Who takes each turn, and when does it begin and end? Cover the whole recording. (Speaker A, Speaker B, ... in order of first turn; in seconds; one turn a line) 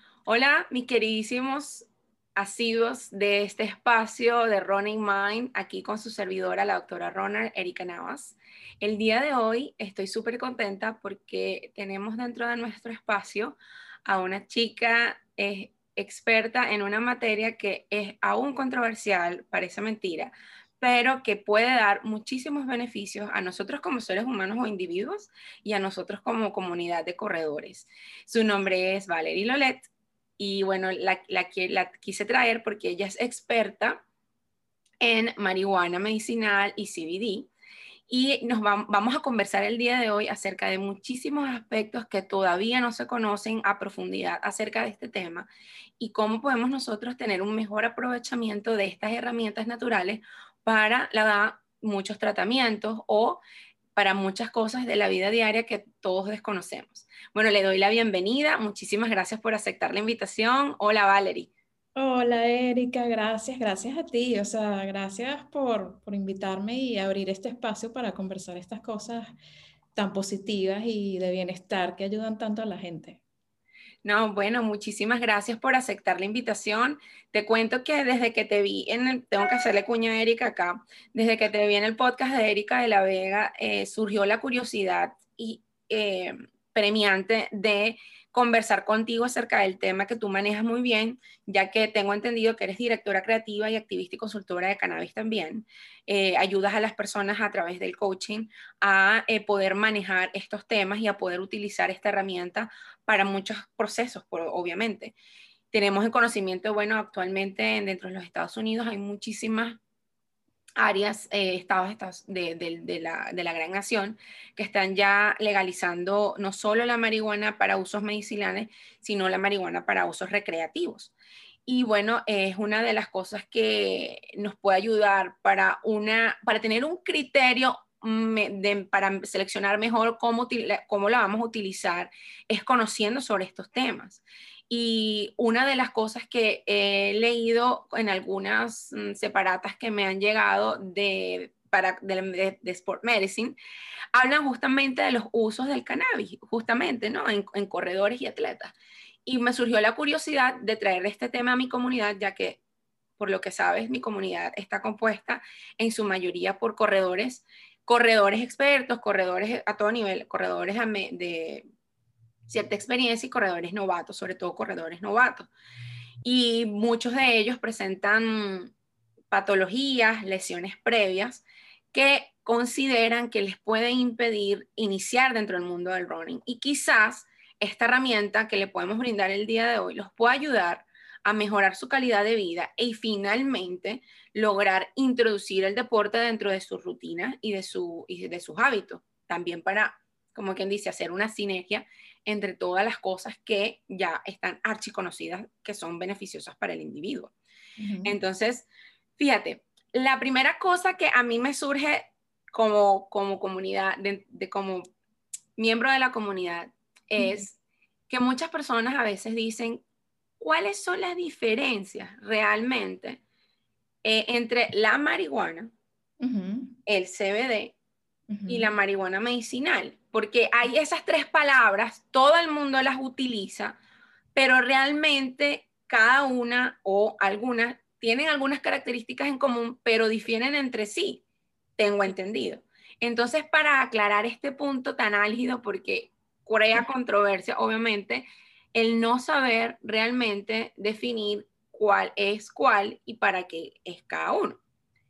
Speaker A: 0.3-34.0
Speaker A: 35.0-37.5
Speaker A: 38.1-45.5
Speaker A: 46.0-53.4
Speaker A: 54.0-61.5
Speaker B: 62.0-69.3
Speaker B: 69.9-73.2
Speaker A: 74.0-105.1
Speaker A: 105.7-109.8
Speaker A: 110.8-121.1
Speaker A: 121.7-143.6
Speaker A: 144.1-148.7
Speaker A: 149.2-152.6
Speaker A: 153.2-161.7
Speaker A: 162.5-165.5
Speaker A: 166.2-168.7
Speaker A: 169.3-197.3
Speaker B: 197.8-198.1
Speaker A: 198.0-204.9
Speaker A: 205.6-207.6
Speaker B: 207.2-207.4
Speaker A: 208.1-209.8
Speaker A: 210.4-213.2
Speaker A: 214.0-215.7
Speaker B: 216.2-216.8
Speaker A: 216.8-217.7
Speaker B: 218.3-218.7
Speaker A: 218.5-223.8
Speaker A: 224.3-231.2
Speaker A: 231.8-244.6